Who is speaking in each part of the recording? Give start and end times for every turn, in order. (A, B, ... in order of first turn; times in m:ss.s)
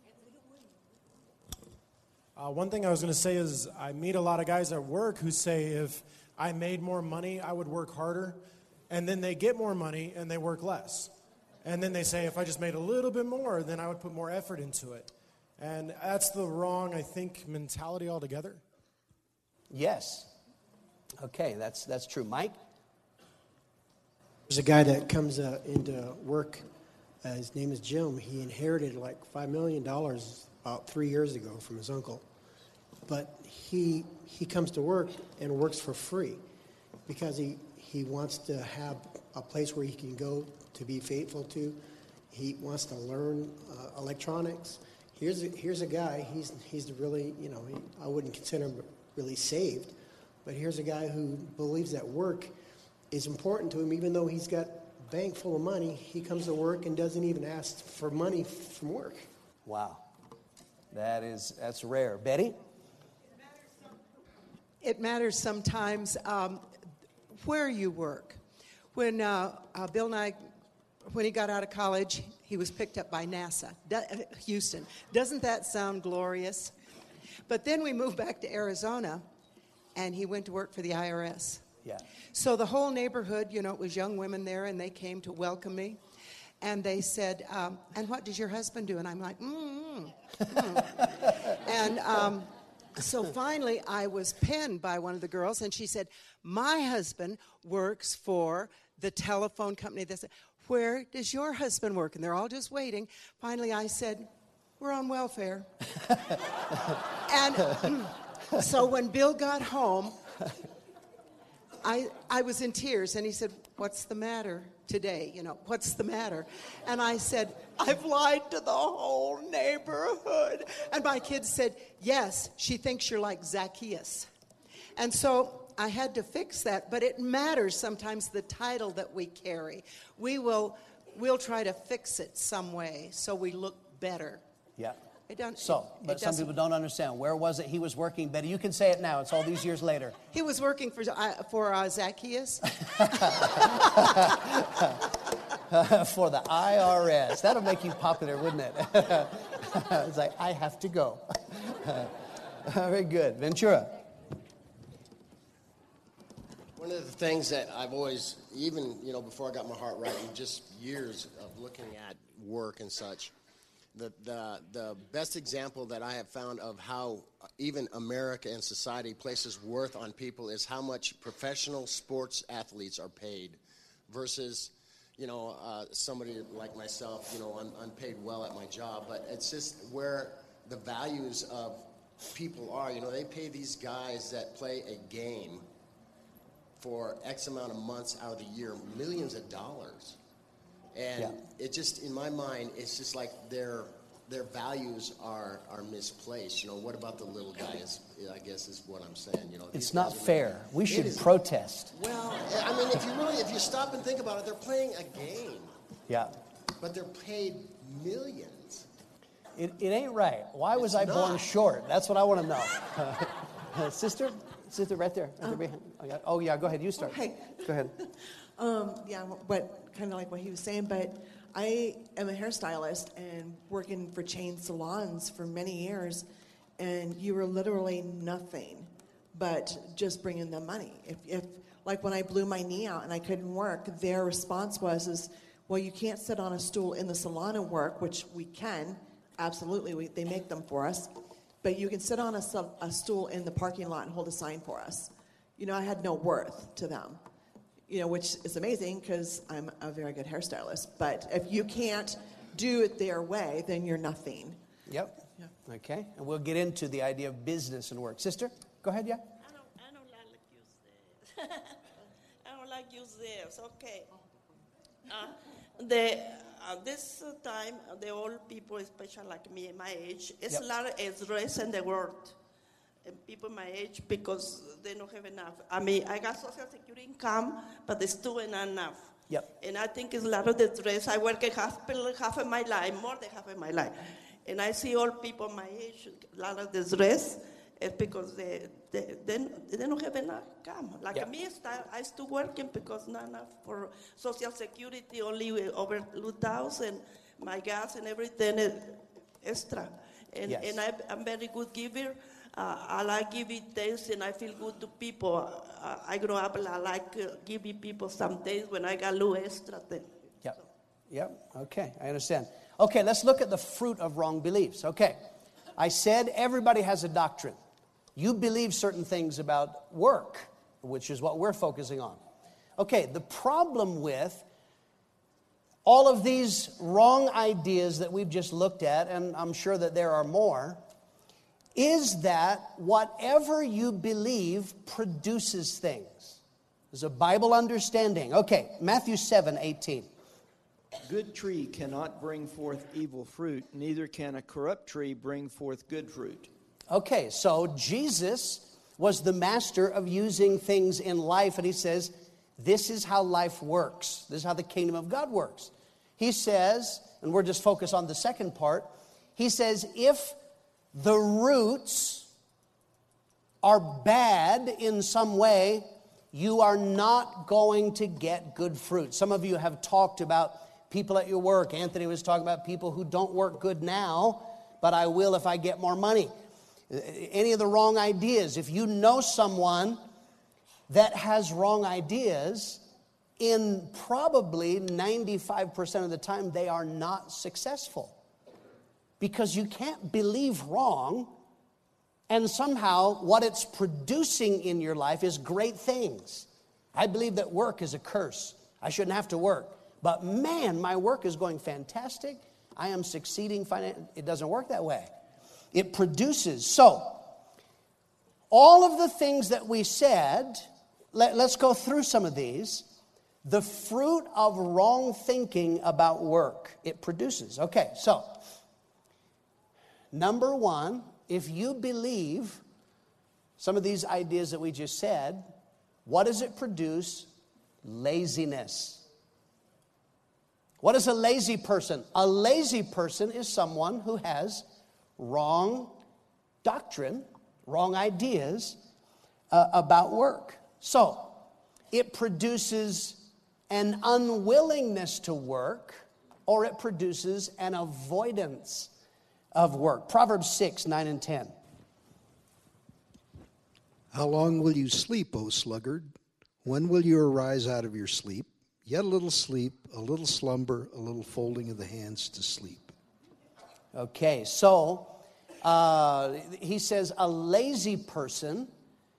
0:02.4-0:08.4 A
0:08.9-0:11.1 A
0:11.6-0:15.1 A
0:15.6-0:18.6 A
0:19.7-0:20.3 B
0:21.2-0:22.6 B
0:24.5-0:26.7 C
0:27.2-0:32.2 C
0:33.0-0:36.4 C
0:37.0-0:52.5 C
0:53.1-0:59.2 C
0:59.6-1:00.0 B
1:00.9-1:02.6 B
1:04.8-1:06.7 D
1:07.3-1:08.4 D
1:08.9-1:10.5 D
1:11.0-1:16.7 D
1:17.5-1:19.3 D
1:19.9-1:21.6 D
1:22.3-1:26.0 D
1:26.6-1:45.7 D
1:47.3-1:50.2 D
1:51.8-2:04.3 D
2:05.0-2:14.4 D
2:15.3-2:16.5 D
2:15.6-2:20.2 B
2:20.3-2:23.2 D
2:23.0-2:25.0 B
2:25.7-2:33.9 B
2:36.8-2:43.3 E
2:43.9-2:53.6 E
2:54.1-3:05.6 E
3:06.8-3:10.2 E
3:10.9-3:21.2 E
3:19.7-3:21.9 B
3:21.9-3:25.7 E
3:26.1-3:26.4 B
3:26.8-3:28.8 E
3:29.5-3:37.9 B
3:30.8-3:31.4 E
3:37.0-3:37.6 F
3:38.6-3:46.2 F
3:46.8-4:01.1 F
4:01.6-4:07.2 F
4:07.9-4:14.6 F
4:14.9-4:19.3 B
4:19.4-4:21.8 G
4:22.4-4:24.1 G
4:25.1-4:32.4 G
4:33.0-5:10.1 G
5:00.4-5:00.8 B
5:10.4-5:15.2 B
5:15.8-5:17.6 B
5:18.1-5:22.2 B
5:22.8-5:24.4 B
5:25.8-5:30.8 B
5:31.7-5:36.4 B
5:36.9-5:40.1 B
5:41.1-5:46.5 H
5:46.9-6:00.4 B
6:00.9-6:02.3 B
6:03.6-6:16.3 B
6:16.9-6:20.0 B
6:20.9-6:22.8 B
6:23.4-6:28.2 B
6:29.2-6:31.3 B
6:32.3-6:45.1 B
6:45.7-6:47.3 B
6:48.5-6:52.9 B
6:53.4-6:58.5 B
7:00.1-7:02.6 B
7:03.6-7:05.5 B
7:06.0-7:07.3 B
7:07.8-7:09.1 B
7:10.8-7:14.7 B
7:15.2-7:16.0 B
7:16.6-7:18.8 B
7:19.5-7:21.4 B
7:21.9-7:28.9 B
7:29.5-7:31.5 B
7:34.1-7:42.9 I
7:43.9-7:48.7 B